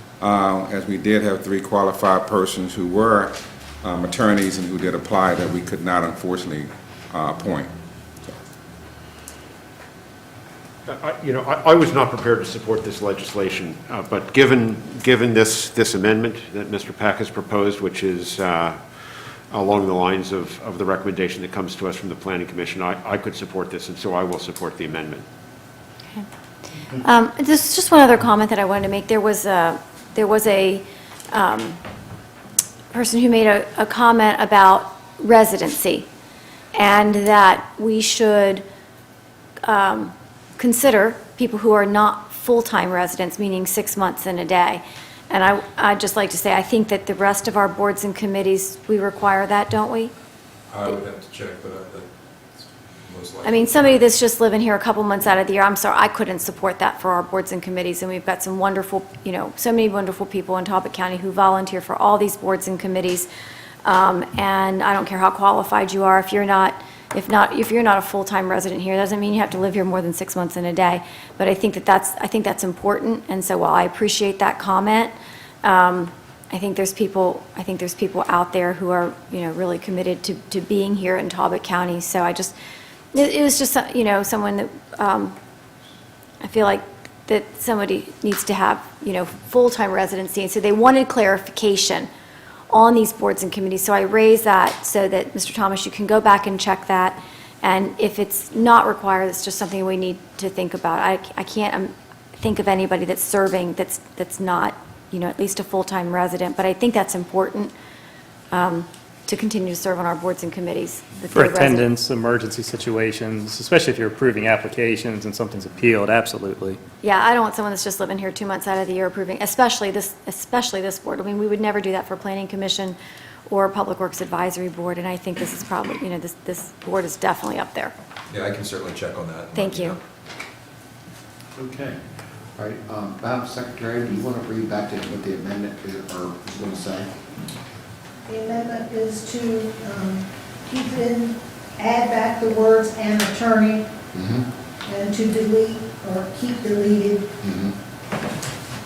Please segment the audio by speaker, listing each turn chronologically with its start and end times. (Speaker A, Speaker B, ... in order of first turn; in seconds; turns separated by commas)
Speaker A: 0.2-7.7, Speaker B: 10.9-25.2, Speaker C: 26.9-31.8, Speaker C: 32.9-36.0, Speaker C: 36.8-38.6, Speaker C: 39.7-50.1, Speaker D: 50.7-52.0, Speaker D: 53.0-54.1, Speaker C: 53.4-63.3, Speaker C: 63.8-82.5, Speaker C: 83.1-85.3, Speaker C: 86.4-92.1, Speaker C: 92.7-107.7, Speaker C: 108.5-111.9, Speaker E: 111.3-116.8, Speaker C: 117.0-123.0, Speaker C: 123.5-127.9, Speaker D: 128.3-130.0, Speaker C: 129.5-130.0, Speaker F: 131.6-132.0, Speaker F: 132.5-137.1, Speaker G: 138.3-143.9, Speaker F: 144.1-144.5, Speaker G: 144.8-147.3, Speaker F: 147.4-147.8